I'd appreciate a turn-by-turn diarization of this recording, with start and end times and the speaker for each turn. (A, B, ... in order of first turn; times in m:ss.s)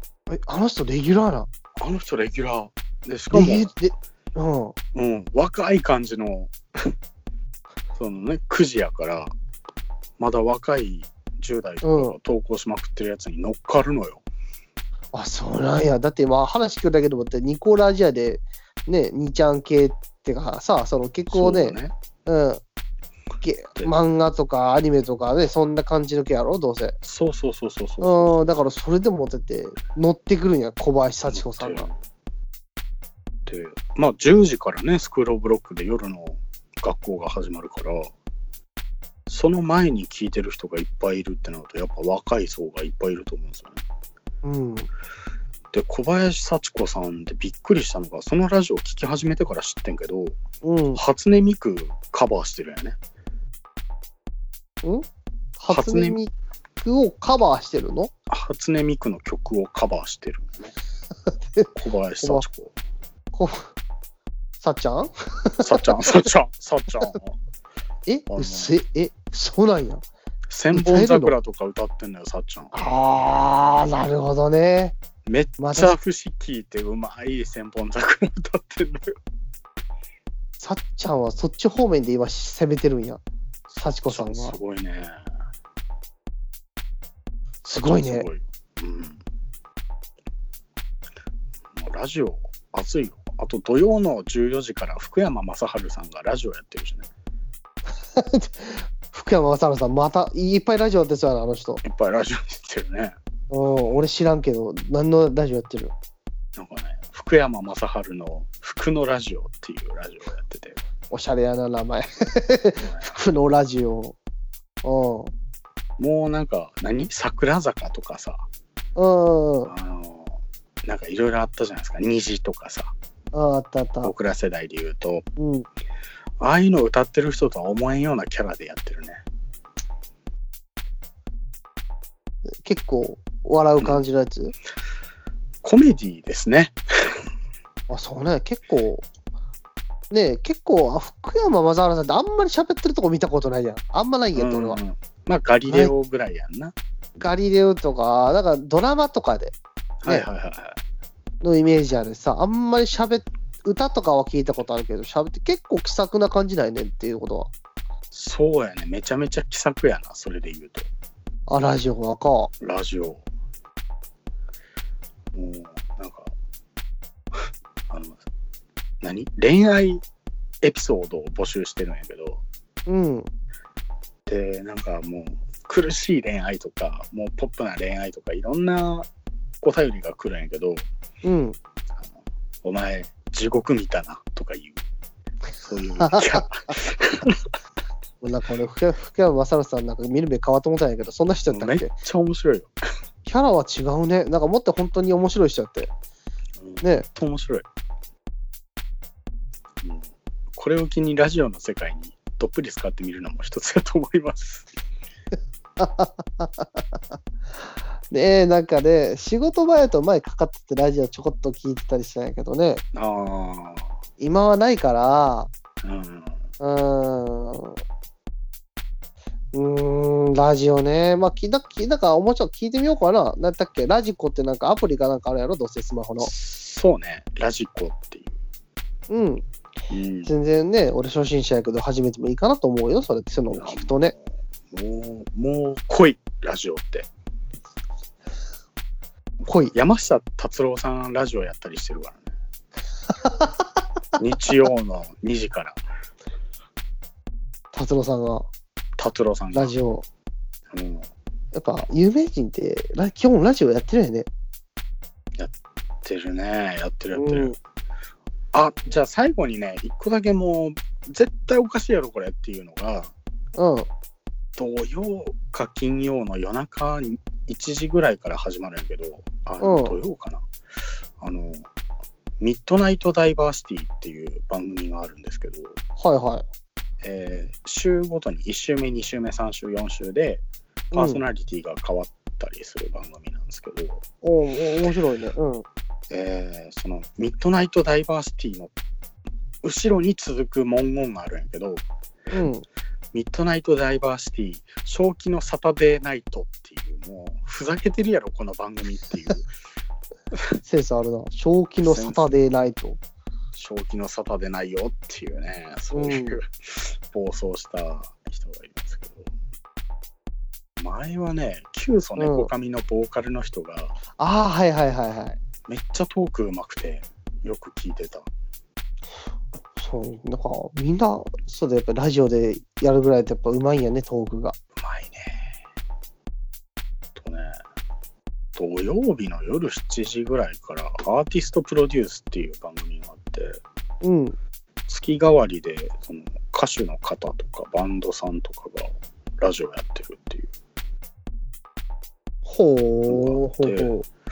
0:00.3-0:01.5 A
0:01.8-0:03.7 B
0:03.3-0:04.8 A
0:04.9-0:06.9 B
0:08.0-0:09.3 B
0:10.2-0:14.2 B
0:11.8-0:12.2 A
0:15.1-0:22.6 A
0:21.3-0:21.9 B
0:23.4-0:27.0 A
0:27.0-0:28.4 B
0:28.0-0:31.9 A
0:31.3-0:32.0 B
0:33.5-0:38.1 B
0:39.3-0:43.8 B
0:44.4-0:44.9 A
0:45.7-0:50.4 B
0:50.6-0:51.0 A
0:51.0-0:53.0 B
0:55.6-0:58.1 A
0:55.7-0:56.2 B
0:58.3-1:00.7 B
1:01.7-1:02.7 B
1:03.3-1:03.7 A
1:04.6-1:05.9 A
1:05.6-1:07.4 B
1:08.1-1:10.0 A
1:08.3-1:08.7 B
1:10.5-1:12.8 B
1:10.7-1:11.3 A
1:12.7-1:15.0 A
1:15.3-1:19.2 B
1:15.6-1:16.0 A
1:20.6-1:23.2 A
1:23.7-1:25.2 B
1:23.8-1:24.6 A
1:27.6-1:28.3 A
1:27.7-1:29.2 B
1:31.8-1:37.1 B
1:38.1-1:41.8 A
1:41.8-1:43.2 B
1:43.5-1:45.9 A
1:46.6-1:50.8 B
1:51.1-1:54.2 A
1:52.8-1:53.2 B
1:54.8-1:55.3 A
1:56.0-1:58.5 B
1:59.0-1:59.7 A
1:59.6-2:02.9 B
2:03.3-2:04.1 A
2:04.0-2:05.3 B
2:05.4-2:05.7 A
2:06.4-2:09.2 B
2:12.6-2:14.5 A
2:15.6-2:17.1 B
2:17.9-2:19.1 A
2:20.1-2:24.8 A
2:24.4-2:26.8 B
2:25.6-2:25.9 A
2:27.2-2:29.6 A
2:30.0-2:30.8 B
2:31.4-2:37.5 A
2:38.1-2:40.9 B
2:41.5-2:42.5 A
2:42.6-2:43.2 B
2:45.3-2:46.3 B
2:47.9-2:48.2 B
2:49.0-2:50.0 B
2:50.6-2:52.4 B
2:52.9-2:53.3 A
2:54.3-2:59.1 B
2:59.6-3:00.9 B
3:01.2-3:01.6 A
3:02.6-3:04.8 B
3:05.6-3:07.4 B
3:06.0-3:06.4 A
3:08.2-3:11.9 A
3:11.5-3:12.8 B
3:13.3-3:15.9 A
3:16.6-3:17.6 B
3:19.8-3:24.7 B
3:25.8-3:26.8 A
3:28.1-3:32.8 A
3:32.9-3:33.9 B
3:34.2-3:35.5 A
3:35.8-3:36.4 B
3:36.6-3:37.8 A
3:39.5-3:46.3 A
3:46.2-3:48.3 B
3:49.1-3:49.5 A
3:49.9-3:50.3 B
3:50.3-3:54.1 A
3:53.5-3:54.2 B
3:54.7-3:57.1 B
3:59.5-3:59.7 A
3:59.7-4:02.3 B
4:03.1-4:03.6 A
4:04.2-4:05.8 B
4:07.7-4:08.5 A
4:09.0-4:09.7 B
4:09.5-4:10.0 A
4:10.7-4:11.1 B
4:11.5-4:14.3 A
4:15.4-4:17.6 B
4:17.1-4:17.6 A
4:18.5-4:23.1 B
4:23.6-4:23.9 A
4:24.6-4:30.5 B
4:29.6-4:30.0 A
4:31.2-4:31.7 B
4:32.4-4:35.8 B
4:36.0-4:36.4 A
4:37.0-4:40.4 B
4:40.9-4:41.2 A
4:40.9-4:44.0 B
4:44.2-4:45.6 A
4:46.1-4:48.7 B
4:49.6-4:51.8 B
4:52.3-4:52.6 A
4:53.1-4:59.5 B
5:00.3-5:00.6 B
5:00.7-5:03.0 A
5:01.8-5:02.4 B
5:03.5-5:09.3 B
5:05.9-5:06.4 A
5:10.8-5:14.0 B
5:12.2-5:12.5 A
5:14.2-5:15.4 A
5:15.7-5:18.3 B
5:19.8-5:24.6 A
5:24.8-5:25.4 B
5:27.2-5:27.6 B
5:28.6-5:33.6 B
5:34.0-5:34.4 A
5:34.9-5:40.5 B
5:42.4-5:44.1 A
5:43.1-5:43.9 B